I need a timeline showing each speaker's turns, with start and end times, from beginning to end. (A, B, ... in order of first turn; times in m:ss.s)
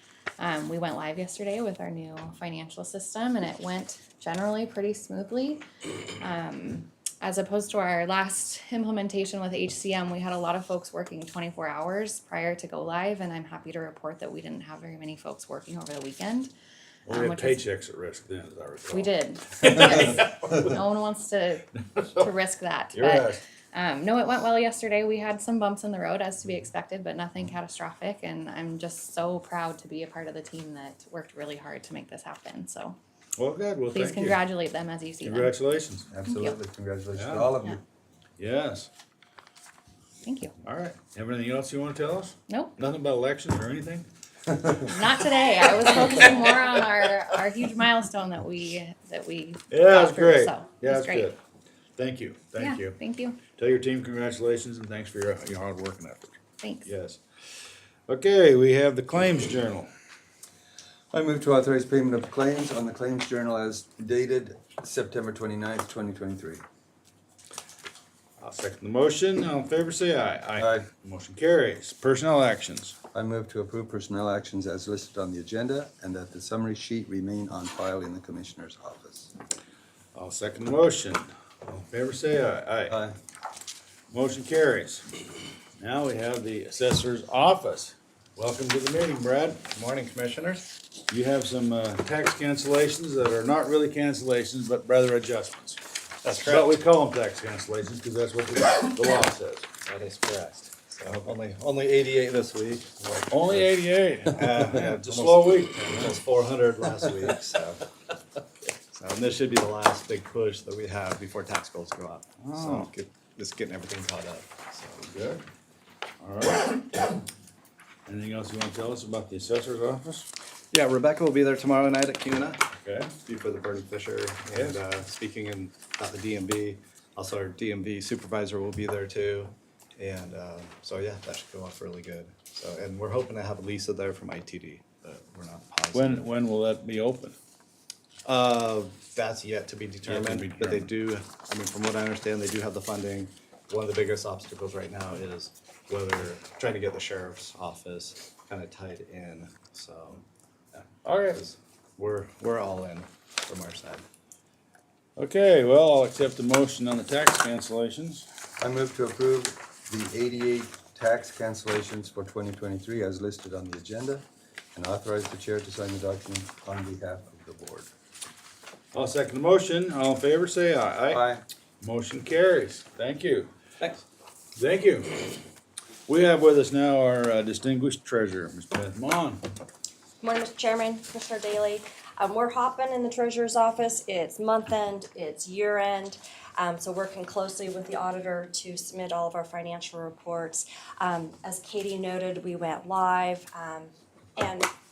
0:00.4-0:05.6 A
0:06.2-0:16.5 A
0:17.1-0:17.6 A
0:17.1-0:20.7 B
0:18.9-0:33.0 A
0:22.9-0:23.4 B
0:33.4-0:34.4 B
0:33.9-0:35.5 A
0:35.2-0:36.1 B
0:36.1-0:37.8 C
0:36.2-0:36.6 A
0:37.1-0:37.5 B
0:38.4-0:38.9 B
0:40.2-0:40.5 A
0:40.6-0:44.1 B
0:42.5-0:42.8 A
0:44.8-0:51.3 A
0:49.7-0:51.4 B
0:52.0-0:53.0 B
0:52.6-0:53.4 A
0:53.5-0:57.2 B
0:56.6-0:56.9 A
0:58.1-0:59.9 B
1:01.1-1:06.6 C
1:08.4-1:13.0 B
1:10.6-1:10.8 C
1:13.1-1:19.3 C
1:20.1-1:23.0 B
1:22.9-1:23.1 C
1:24.1-1:25.0 B
1:25.8-1:29.7 B
1:29.7-1:30.7 D
1:31.1-1:35.8 B
1:36.2-1:36.8 D
1:36.4-1:39.8 B
1:39.8-1:47.8 D
1:43.3-1:46.2 B
1:48.9-1:55.1 D
1:52.4-1:52.9 B
1:55.0-1:55.4 B
1:56.2-1:57.2 B
1:58.1-2:00.3 B
2:00.7-2:02.6 D
2:02.8-2:03.2 B
2:03.2-2:16.3 D
2:04.5-2:04.8 B
2:15.9-2:17.4 B
2:18.2-2:30.2 D
2:20.0-2:20.9 B
2:31.0-2:31.4 B
2:31.4-2:34.0 D
2:35.2-2:38.2 B
2:38.6-2:47.9 C
2:48.9-2:51.3 B
2:51.1-2:51.4 C
2:51.8-2:53.5 B
2:53.8-2:54.0 D
2:54.6-2:55.3 B
2:56.1-2:59.4 B
3:00.2-3:14.7 E